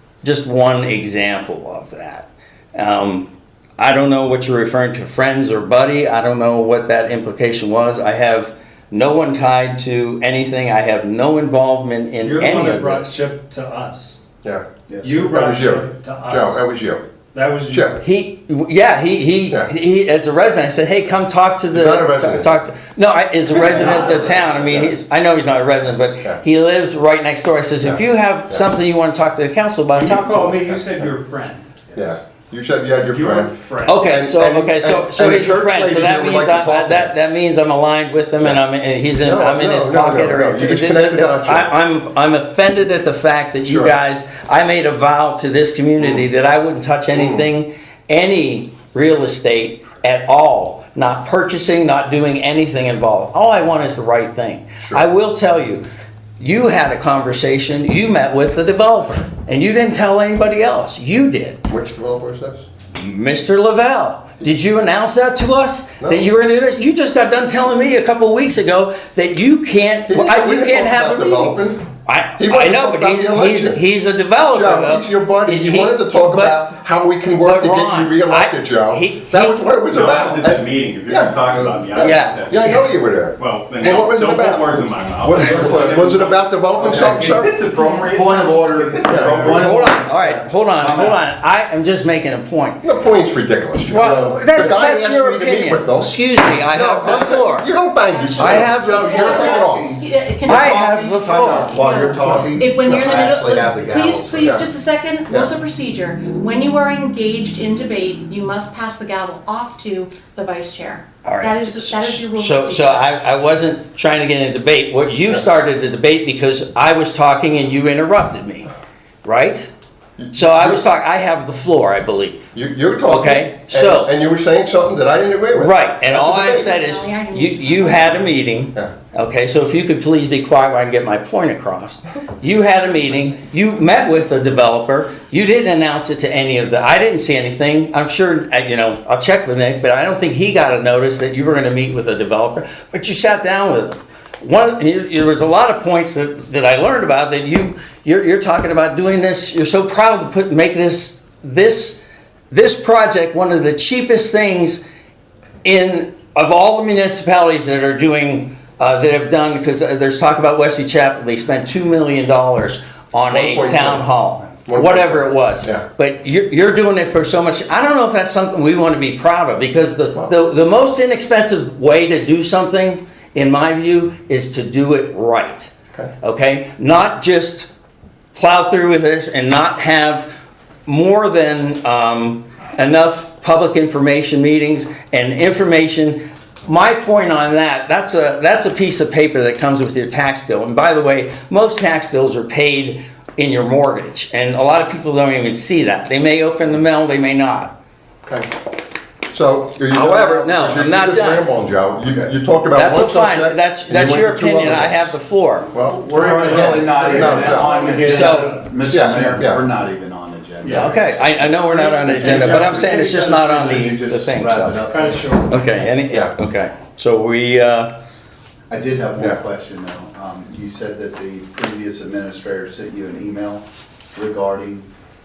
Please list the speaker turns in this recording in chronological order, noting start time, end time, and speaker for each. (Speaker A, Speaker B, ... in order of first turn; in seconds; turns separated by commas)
Speaker A: 0.2-13.2, Speaker B: 12.2-14.2, Speaker C: 14.9-15.3, Speaker B: 15.0-16.7, Speaker D: 15.3-17.0, Speaker B: 17.3-18.0, Speaker D: 17.7-18.0, Speaker A: 18.0-30.8, Speaker D: 21.7-22.5, Speaker B: 23.5-24.4, Speaker D: 23.5-24.9, Speaker D: 27.8-28.7, Speaker B: 29.9-31.9, Speaker D: 31.9-37.1, Speaker B: 33.1-34.0, Speaker A: 33.8-55.8, Speaker D: 39.2-41.7, Speaker D: 43.7-43.9, Speaker D: 47.1-47.4, Speaker A: 56.4-61.6, Speaker D: 61.7-62.6, Speaker A: 62.9-76.6, Speaker D: 70.1-71.8, Speaker D: 72.4-73.8, Speaker D: 74.5-84.7, Speaker A: 77.4-79.6, Speaker E: 79.7-89.8, Speaker A: 81.9-82.8, Speaker D: 85.2-87.6, Speaker C: 86.8-91.2, Speaker B: 89.1-89.7, Speaker A: 89.5-92.8, Speaker D: 92.8-100.0, Speaker A: 93.9-97.7, Speaker F: 98.0-113.2, Speaker A: 98.4-99.5, Speaker C: 99.7-104.6, Speaker A: 100.5-101.9, Speaker D: 102.2-103.7, Speaker D: 104.3-104.7, Speaker A: 111.2-118.7, Speaker A: 119.2-119.7, Speaker D: 120.2-120.8, Speaker A: 120.3-122.5, Speaker D: 122.5-126.8, Speaker A: 123.1-124.1, Speaker A: 125.6-154.8, Speaker F: 126.5-128.4, Speaker A: 155.6-177.7, Speaker D: 163.3-164.1, Speaker D: 164.7-165.8, Speaker A: 178.3-180.3, Speaker A: 180.8-197.8, Speaker D: 199.3-205.1, Speaker A: 199.9-201.5, Speaker A: 202.7-205.7, Speaker D: 205.7-208.0, Speaker C: 205.7-212.9, Speaker B: 206.2-208.7, Speaker A: 208.0-208.5, Speaker D: 208.9-209.6, Speaker D: 210.6-210.9, Speaker A: 210.7-214.8, Speaker B: 211.3-215.6, Speaker C: 213.6-215.5, Speaker A: 215.5-217.9, Speaker C: 218.7-224.9